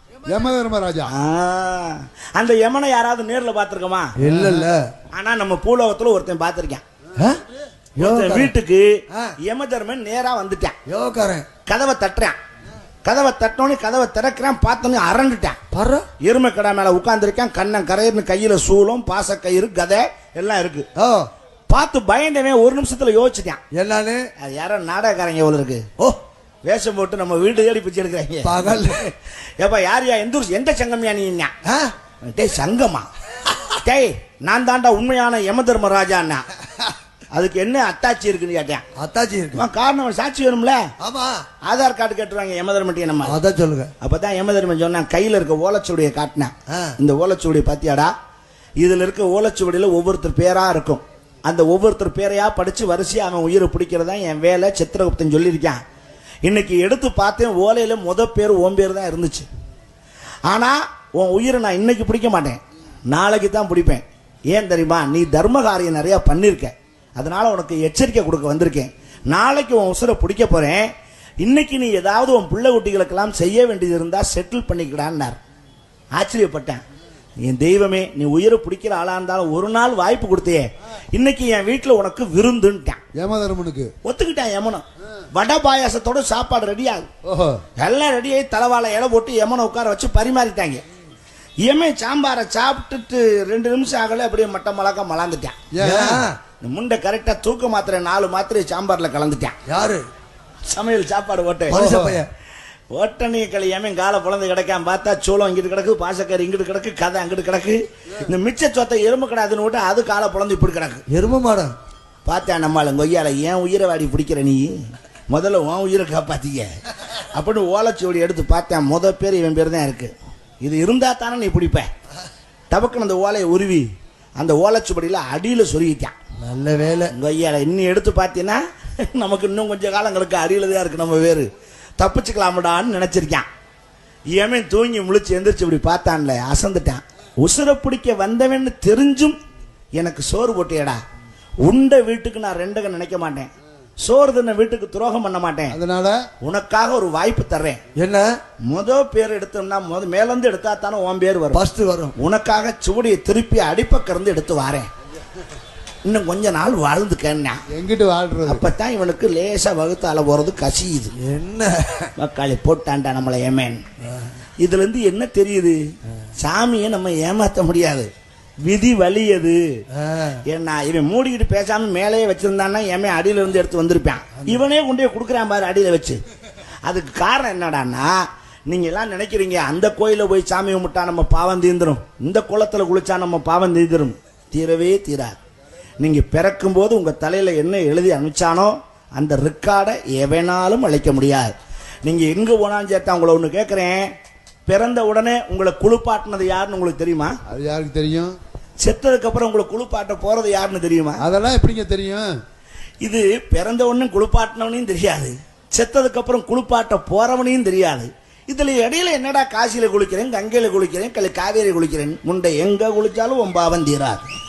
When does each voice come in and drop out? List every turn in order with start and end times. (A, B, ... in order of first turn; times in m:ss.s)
0:00.2-0:01.1 A
0:01.1-0:04.1 B
0:04.2-0:04.9 C
0:04.2-0:04.7 A
0:05.1-0:06.8 B
0:08.0-0:08.5 C
0:08.0-0:10.8 B
0:10.9-0:11.4 C
0:11.6-0:12.4 B
0:13.0-0:15.6 B
0:15.7-0:16.0 C
0:16.2-0:20.9 B
0:21.0-0:21.3 C
0:21.7-0:23.6 B
0:23.7-0:24.2 C
0:24.4-0:25.8 B
0:26.6-0:31.5 B
0:28.4-0:29.0 C
0:31.6-0:31.9 C
0:32.3-0:33.1 B
0:33.8-0:36.4 B
0:37.3-0:38.8 B
0:39.0-0:39.6 C
0:39.5-0:40.9 B
0:41.0-0:41.4 C
0:41.6-0:43.4 B
0:43.2-0:43.9 C
0:44.0-0:48.1 B
0:48.8-0:55.8 B
0:56.4-0:59.5 B
1:00.5-1:15.4 B
1:16.2-1:16.8 B
1:17.4-1:23.0 B
1:23.2-1:23.9 A
1:24.0-1:27.1 B
1:27.2-1:27.6 A
1:27.8-1:30.8 B
1:31.6-1:35.6 B
1:35.7-1:36.2 A
1:35.8-1:36.4 C
1:36.6-1:39.6 B
1:39.7-1:40.0 C
1:40.6-1:41.8 B
1:41.7-1:42.3 C
1:41.7-1:42.2 A
1:42.9-1:51.0 B
1:51.1-1:51.7 C
1:52.2-1:54.8 B
1:55.3-2:01.9 B
2:02.7-2:06.1 B
2:06.4-2:07.1 C
2:07.1-2:13.5 B
2:14.3-2:19.4 B
2:20.0-2:21.0 B
2:21.6-2:23.5 B
2:24.0-2:25.8 B
2:25.7-2:26.2 A
2:26.4-2:27.8 B
2:28.0-2:28.3 C
2:28.7-2:31.6 B
2:31.5-2:32.1 C
2:32.2-2:34.9 B
2:36.0-2:37.6 B
2:37.7-2:38.6 A
2:38.4-2:41.1 B
2:41.2-2:42.1 C
2:42.2-2:43.8 B
2:44.6-2:45.8 B
2:46.4-2:48.1 B
2:48.6-2:49.8 B
2:49.9-2:50.4 C
2:50.5-2:56.2 B
2:56.8-3:05.4 B
3:06.0-3:11.5 B
3:12.0-3:14.1 B
3:14.7-3:17.4 B
3:17.5-3:18.3 A
3:18.8-3:21.2 B
3:21.2-3:22.3 A
3:23.0-3:34.3 B